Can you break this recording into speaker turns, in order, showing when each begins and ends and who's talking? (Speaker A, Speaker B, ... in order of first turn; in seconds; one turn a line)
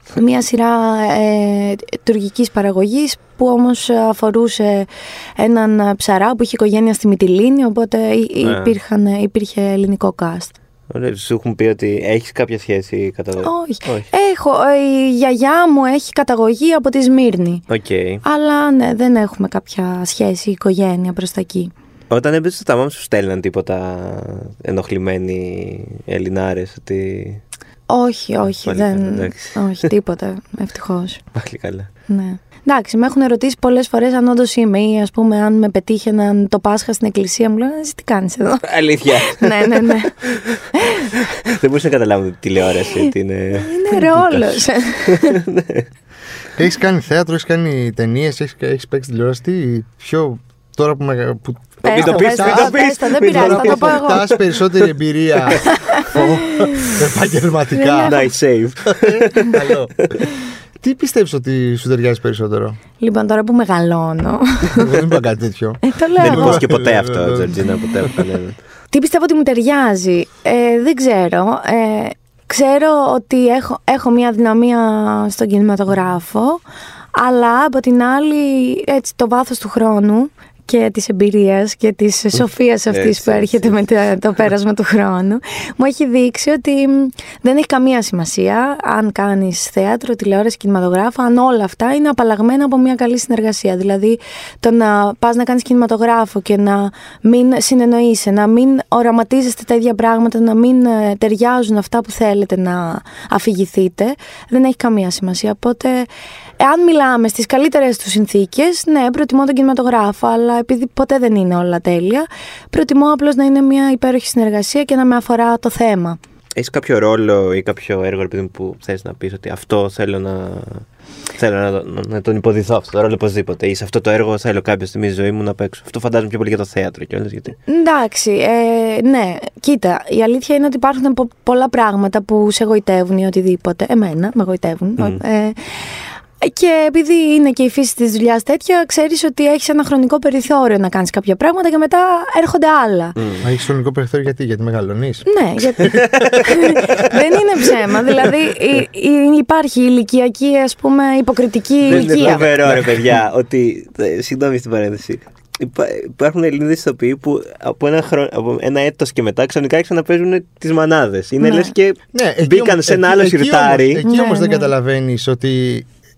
Speaker A: 0.1-10.5
Speaker B: 8.4-8.8
Speaker B: 10.9-14.1
Speaker A: 13.4-17.6
Speaker B: 17.7-18.2
Speaker A: 18.2-21.7
Speaker B: 22.1-27.4
Speaker A: 27.9-31.2
Speaker B: 28.4-29.9
Speaker B: 31.3-31.9
Speaker A: 32.1-41.1
Speaker B: 38.6-45.9
Speaker A: 42.9-45.4
Speaker C: 46.6-58.2
Speaker A: 51.8-54.2
Speaker B: 51.8-54.4
Speaker A: 55.6-57.0
Speaker A: 57.7-58.3
Speaker B: 58.0-60.3
Speaker C: 58.9-59.9
Speaker C: 60.8-62.8
Speaker A: 63.0-65.0
Speaker C: 64.7-68.2
Speaker A: 65.8-66.7
Speaker B: 66.2-68.6
Speaker A: 68.9-76.6
Speaker A: 77.1-106.1
Speaker B: 82.9-83.8
Speaker A: 106.6-116.2
Speaker B: 116.5-120.8
Speaker B: 121.3-127.6
Speaker A: 127.7-143.2
Speaker B: 143.2-143.5
Speaker C: 143.4-145.3
Speaker A: 145.2-152.4
Speaker C: 145.8-146.1
Speaker B: 145.9-147.0
Speaker B: 151.9-164.0
Speaker C: 151.9-153.2
Speaker A: 161.4-161.7
Speaker C: 162.1-165.9
Speaker A: 164.0-164.7